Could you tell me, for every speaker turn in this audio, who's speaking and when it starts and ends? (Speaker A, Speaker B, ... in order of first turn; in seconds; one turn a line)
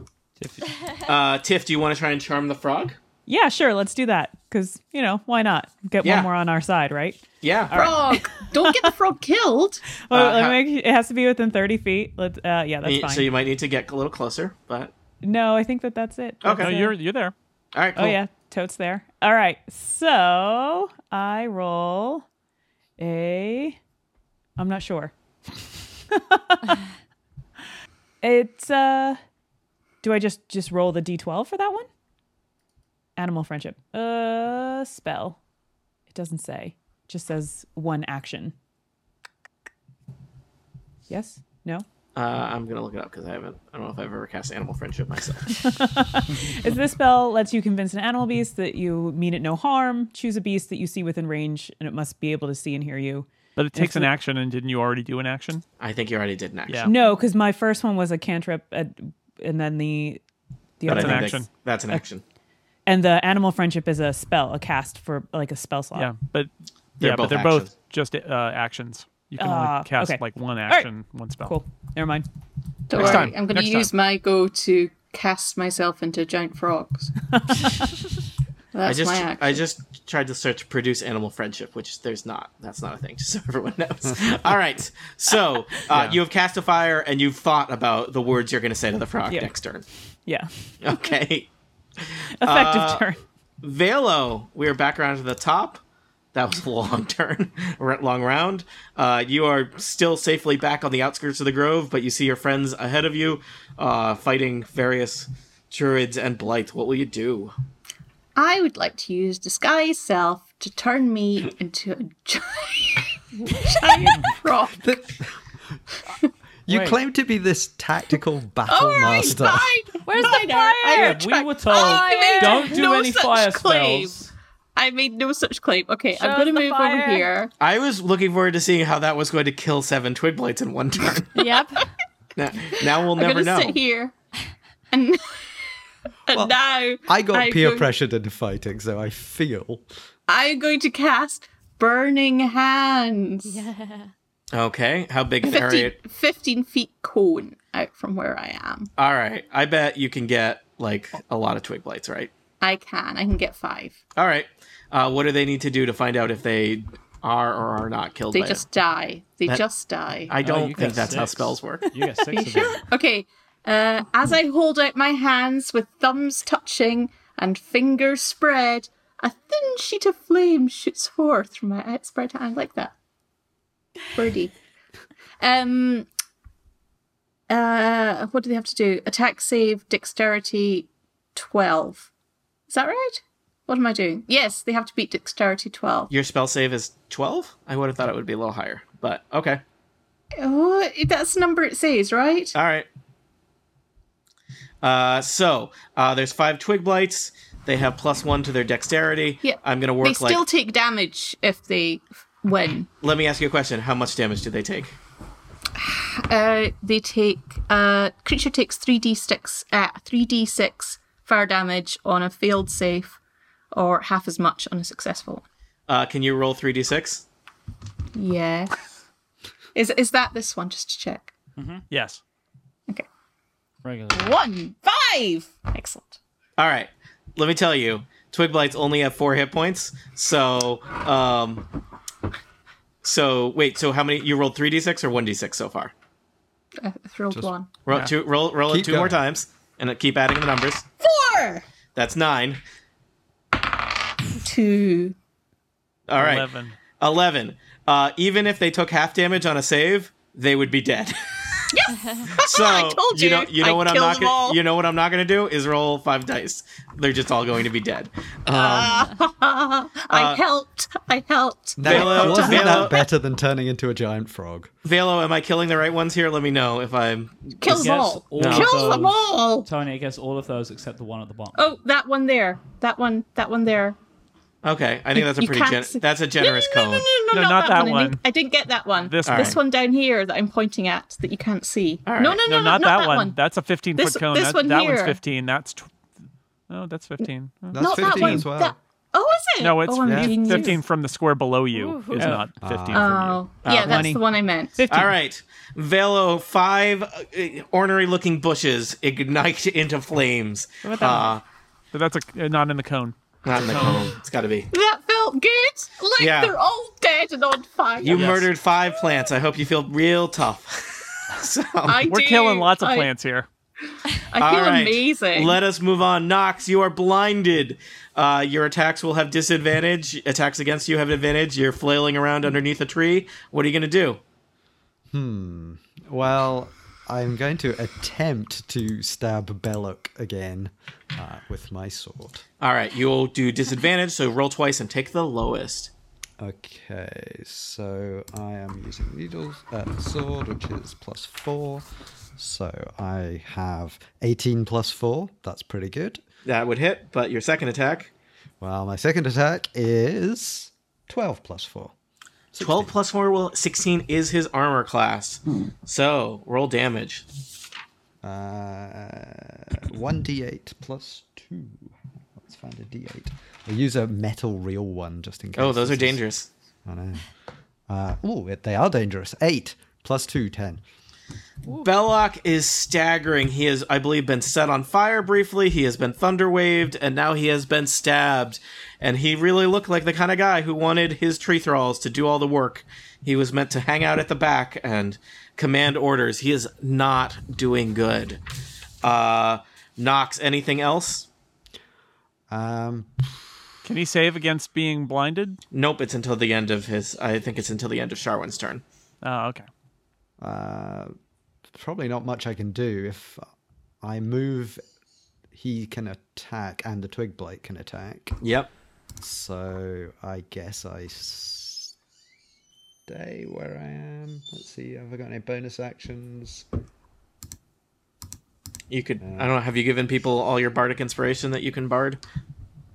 Speaker A: 0.4-0.7
Speaker B: 1.0-3.0
Speaker C: 3.3-8.9
Speaker B: 6.0-6.3
Speaker B: 7.4-7.9
Speaker D: 7.7-9.8
Speaker C: 10.1-13.3
Speaker B: 10.1-10.6
Speaker B: 12.8-14.9
Speaker C: 15.2-17.0
Speaker B: 16.4-16.7
Speaker E: 16.6-17.3
Speaker B: 17.7-18.2
Speaker C: 18.0-22.2
Speaker C: 23.0-23.8
Speaker C: 24.6-26.8
Speaker C: 28.2-29.2
Speaker C: 30.0-31.9
Speaker C: 33.2-35.4
Speaker C: 36.1-38.5
Speaker C: 41.1-41.9
Speaker B: 42.1-45.6
Speaker C: 45.6-54.1
Speaker E: 53.6-55.6
Speaker B: 55.8-56.9
Speaker E: 56.7-56.9
Speaker C: 56.9-60.2
Speaker C: 60.8-62.0
Speaker E: 60.9-61.5
Speaker B: 60.9-62.2
Speaker C: 62.9-66.1
Speaker E: 66.0-71.6
Speaker B: 67.0-67.7
Speaker C: 69.4-70.9
Speaker C: 71.4-72.3
Speaker D: 72.9-77.1
Speaker E: 73.0-73.9
Speaker B: 73.0-73.3
Speaker C: 77.4-77.9
Speaker D: 78.7-79.6
Speaker B: 78.8-89.8
Speaker E: 85.9-86.2
Speaker C: 89.3-89.6
Speaker C: 90.3-90.5
Speaker B: 90.8-91.5
Speaker B: 92.0-93.1
Speaker C: 92.4-93.2
Speaker B: 93.6-95.8
Speaker B: 96.3-107.5
Speaker D: 108.4-115.0
Speaker F: 114.8-115.3
Speaker F: 116.7-119.8
Speaker A: 116.7-117.0
Speaker D: 118.7-124.2
Speaker G: 120.1-122.9
Speaker A: 120.9-124.3
Speaker D: 124.8-127.5
Speaker G: 126.1-127.3
Speaker B: 127.6-131.4
Speaker G: 131.4-131.9
Speaker B: 132.4-133.8
Speaker D: 133.1-134.1
Speaker D: 134.9-135.4
Speaker D: 136.3-137.9
Speaker F: 136.3-139.8
Speaker D: 140.3-143.7
Speaker G: 143.4-144.1
Speaker B: 144.5-146.0
Speaker D: 145.4-148.9
Speaker B: 149.0-152.3
Speaker D: 152.6-154.0
Speaker B: 154.2-158.6
Speaker D: 158.3-161.0
Speaker B: 160.3-161.9
Speaker A: 160.4-162.8
Speaker D: 162.3-172.9
Speaker D: 174.1-174.5
Speaker D: 175.4-176.1
Speaker D: 177.5-182.1
Speaker D: 182.7-186.1
Speaker B: 186.1-189.6
Speaker D: 190.4-192.6
Speaker B: 192.5-192.9
Speaker B: 194.8-200.4
Speaker D: 199.4-202.9
Speaker B: 203.0-204.9
Speaker D: 205.8-213.2
Speaker D: 213.7-215.4
Speaker B: 215.9-217.3
Speaker D: 218.2-218.8
Speaker D: 219.8-221.3
Speaker A: 221.6-221.9
Speaker E: 221.9-222.2
Speaker A: 223.8-224.3
Speaker D: 224.1-226.2
Speaker B: 226.6-231.7
Speaker B: 233.0-235.9
Speaker D: 236.8-237.7
Speaker B: 237.9-240.9
Speaker F: 238.7-239.2
Speaker D: 241.0-241.7
Speaker B: 241.9-242.6
Speaker D: 244.4-245.2
Speaker B: 246.1-246.5
Speaker E: 246.2-246.8
Speaker B: 247.0-251.2
Speaker D: 251.7-254.6
Speaker G: 252.0-252.2
Speaker B: 252.4-259.1
Speaker D: 258.5-263.1
Speaker B: 260.1-260.4
Speaker F: 261.8-264.7
Speaker B: 261.8-263.0
Speaker B: 264.8-269.0
Speaker D: 267.6-269.7
Speaker A: 267.7-271.7
Speaker D: 271.5-274.0
Speaker B: 274.6-277.1
Speaker D: 275.1-283.4
Speaker E: 277.3-278.2
Speaker E: 279.0-279.6
Speaker B: 279.2-279.6
Speaker B: 282.1-282.4
Speaker E: 282.4-285.9
Speaker D: 284.0-285.2
Speaker E: 286.7-288.5
Speaker F: 287.7-288.8
Speaker D: 287.8-290.8
Speaker E: 289.6-293.4
Speaker F: 290.0-290.6
Speaker G: 291.7-292.4
Speaker C: 292.2-292.5
Speaker F: 292.6-293.4
Speaker D: 292.9-294.8
Speaker B: 293.6-294.0
Speaker C: 293.8-294.2
Speaker C: 294.8-295.1
Speaker B: 294.9-301.4
Speaker C: 300.8-301.4
Speaker E: 301.9-304.1
Speaker B: 303.4-304.7
Speaker D: 304.7-308.5
Speaker B: 306.2-306.5
Speaker B: 308.0-312.1
Speaker E: 308.1-308.5
Speaker D: 311.9-313.1
Speaker E: 312.0-313.5
Speaker D: 314.3-315.6
Speaker B: 314.4-324.2
Speaker F: 325.1-332.4
Speaker B: 332.6-335.9
Speaker F: 336.4-346.2
Speaker B: 346.4-348.1
Speaker F: 348.6-351.9
Speaker F: 352.5-352.9
Speaker B: 352.6-357.3
Speaker F: 358.2-366.3
Speaker B: 365.6-366.5
Speaker F: 366.9-367.3
Speaker F: 367.9-370.8
Speaker B: 371.8-388.4
Speaker B: 389.0-391.3
Speaker F: 392.5-393.6
Speaker E: 393.8-395.6
Speaker B: 395.7-398.8
Speaker E: 399.2-399.7
Speaker F: 400.4-401.1
Speaker F: 401.7-403.5
Speaker F: 404.0-404.8
Speaker F: 405.5-408.4
Speaker B: 408.4-408.7
Speaker F: 409.2-411.9
Speaker F: 413.1-416.6
Speaker B: 418.9-422.2
Speaker F: 419.2-419.5